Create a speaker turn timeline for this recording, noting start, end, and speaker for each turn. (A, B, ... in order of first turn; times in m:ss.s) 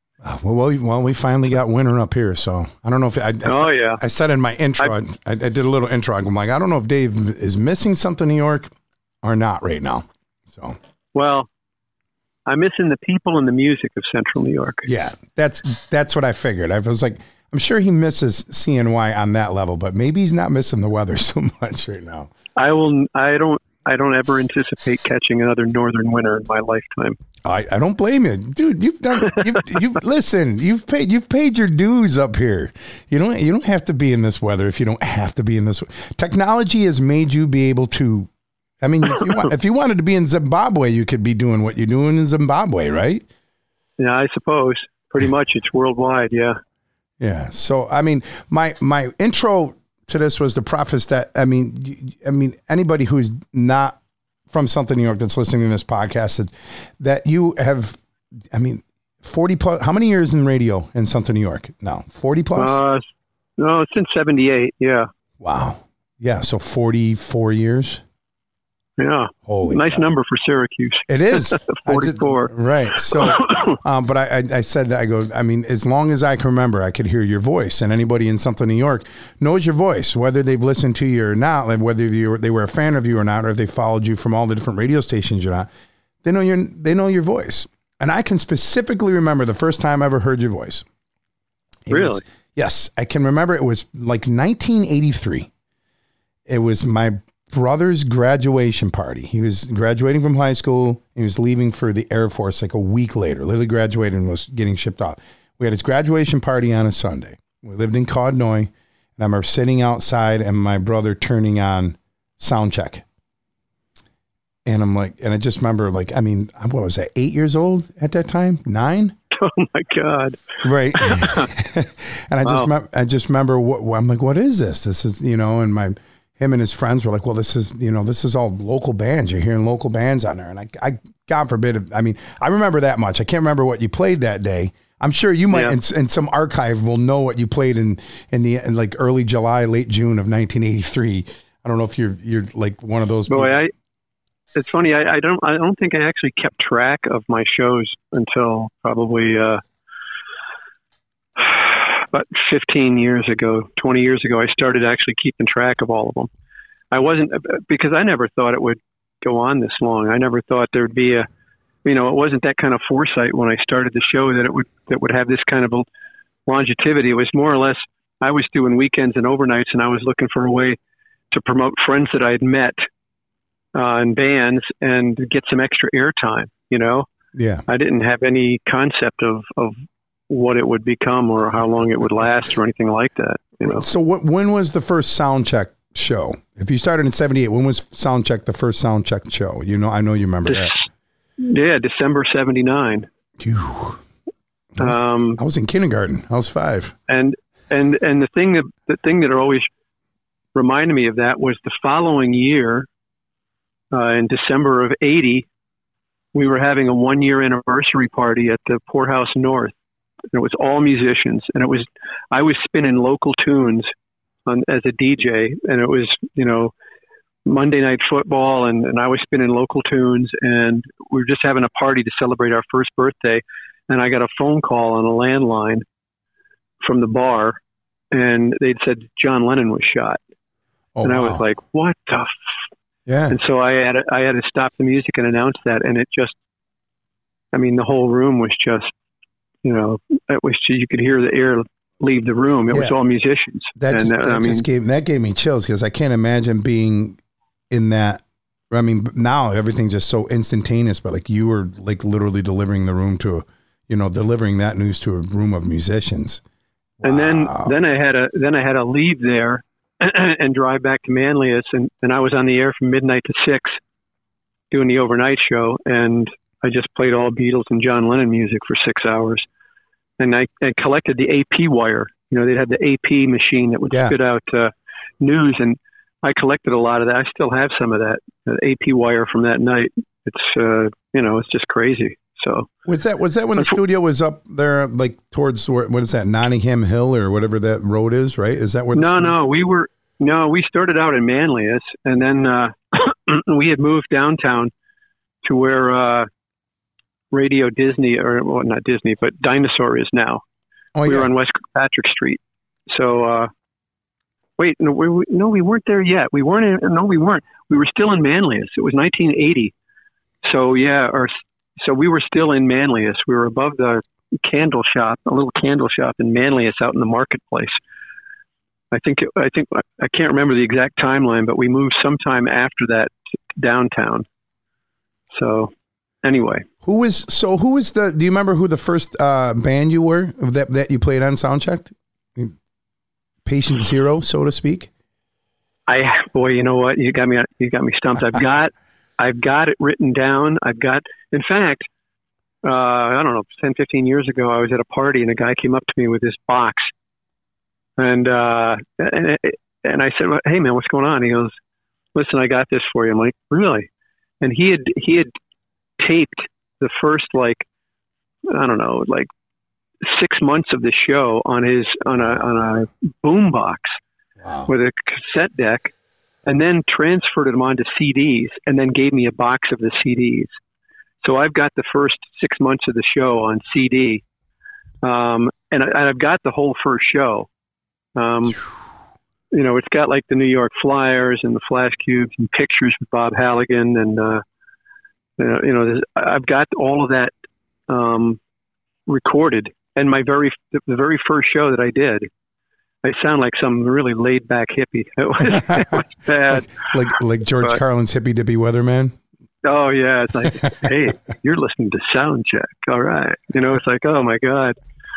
0:00.2-0:08.7 A
0:03.4-0:04.0 B
0:09.2-0:10.8 A
0:11.1-0:11.5 B
0:12.5-0:14.9 B
0:14.8-0:22.3 A
0:22.6-0:27.2 B
0:27.4-0:38.3 A
0:38.8-0:43.2 A
0:44.0-0:46.6 B
0:47.2-0:54.0 A
0:54.5-0:58.0 A
0:58.5-1:02.8 A
1:02.6-1:03.0 B
1:03.6-1:05.1 B
1:05.4-1:08.0 A
1:09.0-1:12.5 B
1:09.5-1:10.1 A
1:11.1-1:25.7 A
1:13.1-1:13.7 B
1:26.2-1:30.8 A
1:31.9-1:35.5 A
1:31.9-1:32.2 B
1:36.5-1:53.0 A
1:54.6-1:59.2 A
1:59.3-2:00.4 B
2:00.6-2:23.6 A
2:01.0-2:01.5 B
2:02.4-2:02.7 B
2:23.3-2:23.7 B
2:24.5-2:29.6 B
2:31.4-2:36.3 B
2:36.9-2:41.3 B
2:41.8-2:45.9 B
2:46.5-2:50.8 B
2:51.3-2:52.8 B
2:53.7-2:57.0 B
2:57.3-2:57.6 A
2:57.7-2:59.8 B
3:00.3-3:03.8 B
3:03.6-3:10.7 A
3:10.4-3:10.9 B
3:11.4-3:13.1 B
3:13.4-3:14.0 A
3:14.8-3:16.9 A
3:14.8-3:15.4 B
3:17.1-3:19.7 B
3:20.5-3:22.9 B
3:23.9-3:25.5 B
3:26.3-3:29.7 B
3:30.3-3:33.9 B
3:34.5-3:36.7 B
3:37.4-3:45.8 B
3:46.8-3:47.6 B
3:48.1-3:50.2 B
3:50.9-3:51.4 A
3:51.0-3:52.4 B
3:53.1-3:53.4 A
3:53.3-3:56.3 B
3:57.5-3:58.9 B
3:59.6-4:04.6 B
4:02.7-4:03.0 A
4:03.8-4:07.2 A
4:07.7-4:16.4 A
4:17.0-4:17.7 A
4:17.0-4:23.8 B
4:24.7-4:29.4 B
4:30.2-4:42.7 B
4:33.9-4:34.2 A
4:42.8-4:49.3 A
4:48.9-4:54.7 B
4:55.4-4:56.3 B
4:57.3-5:00.4 B
5:01.0-5:01.3 A
5:01.0-5:03.5 B
5:04.6-5:09.7 B
5:10.4-5:17.8 B
5:18.9-5:24.2 B
5:25.3-5:26.7 B
5:26.8-5:32.5 A
5:33.4-5:34.9 A
5:35.9-5:41.9 B
5:42.6-5:46.9 B
5:48.0-5:51.5 B
5:52.1-5:53.9 B
5:54.4-5:55.3 B
5:56.0-5:57.6 B
5:58.5-5:59.3 B
6:00.0-6:04.0 B
6:04.4-6:04.7 A
6:04.7-6:05.9 B
6:06.4-6:10.5 B
6:11.2-6:14.2 B
6:15.0-6:17.5 B
6:18.2-6:18.6 B
6:19.5-6:24.4 B
6:25.4-6:27.3 B
6:27.9-6:28.4 B
6:29.1-6:32.3 B
6:33.0-6:36.7 B
6:35.5-6:35.9 A
6:36.5-6:39.2 A
6:39.6-6:44.8 B